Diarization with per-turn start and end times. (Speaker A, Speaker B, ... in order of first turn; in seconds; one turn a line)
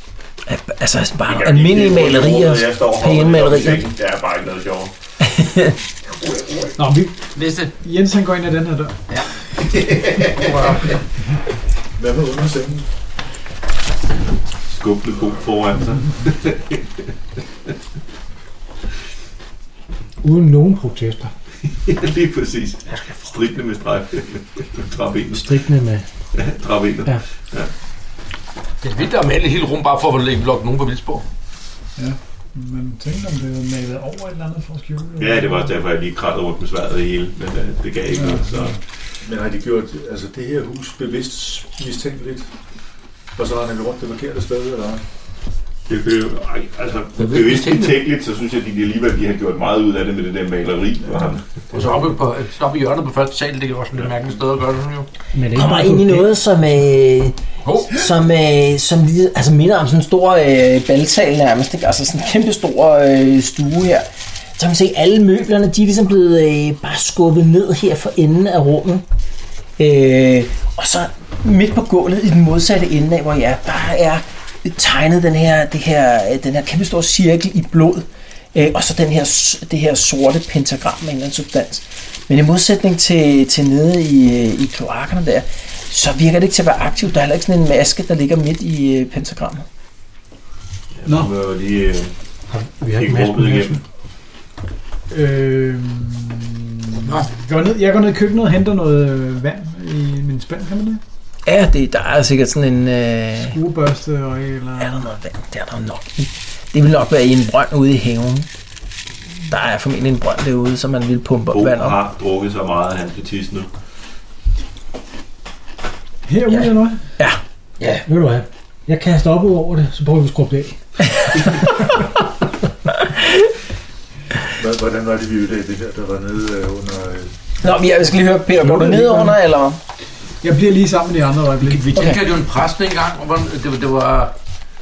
Speaker A: 0.5-3.9
Speaker B: 1.2-4.9
Speaker A: 5.2-5.8
Speaker C: 6.8-7.2
Speaker D: 7.3-7.7
Speaker C: 7.8-9.0
Speaker D: 10.4-10.9
Speaker E: 12.0-12.8
Speaker B: 14.7-16.8
Speaker F: 20.2-21.3
Speaker B: 21.8-25.5
Speaker F: 25.3-26.1
Speaker B: 26.4-27.7
Speaker D: 28.8-31.2
Speaker C: 32.0-35.7
Speaker B: 35.2-38.8
Speaker C: 38.2-38.7
Speaker E: 39.2-42.5
Speaker E: 43.4-45.0
Speaker B: 45.9-51.5
Speaker D: 47.2-48.0
Speaker D: 51.7-55.1
Speaker F: 55.3-56.3
Speaker A: 55.5-64.1
Speaker D: 57.6-58.0
Speaker A: 64.6-69.0
Speaker A: 69.8-89.7
Speaker B: 91.0-92.1
Speaker C: 91.1-91.3
Speaker F: 92.5-93.8
Speaker B: 93.0-93.8
Speaker C: 95.1-101.0
Speaker A: 101.5-103.6
Speaker C: 103.5-105.0
Speaker A: 104.8-108.5
Speaker A: 109.5-112.0
Speaker B: 111.5-113.7
Speaker C: 116.3-117.0
Speaker A: 117.2-118.0
Speaker F: 118.1-120.8
Speaker E: 124.6-127.3
Speaker A: 127.6-129.8
Speaker F: 128.7-129.1
Speaker C: 128.8-129.2
Speaker C: 130.4-131.9
Speaker D: 131.6-134.3
Speaker A: 131.9-132.2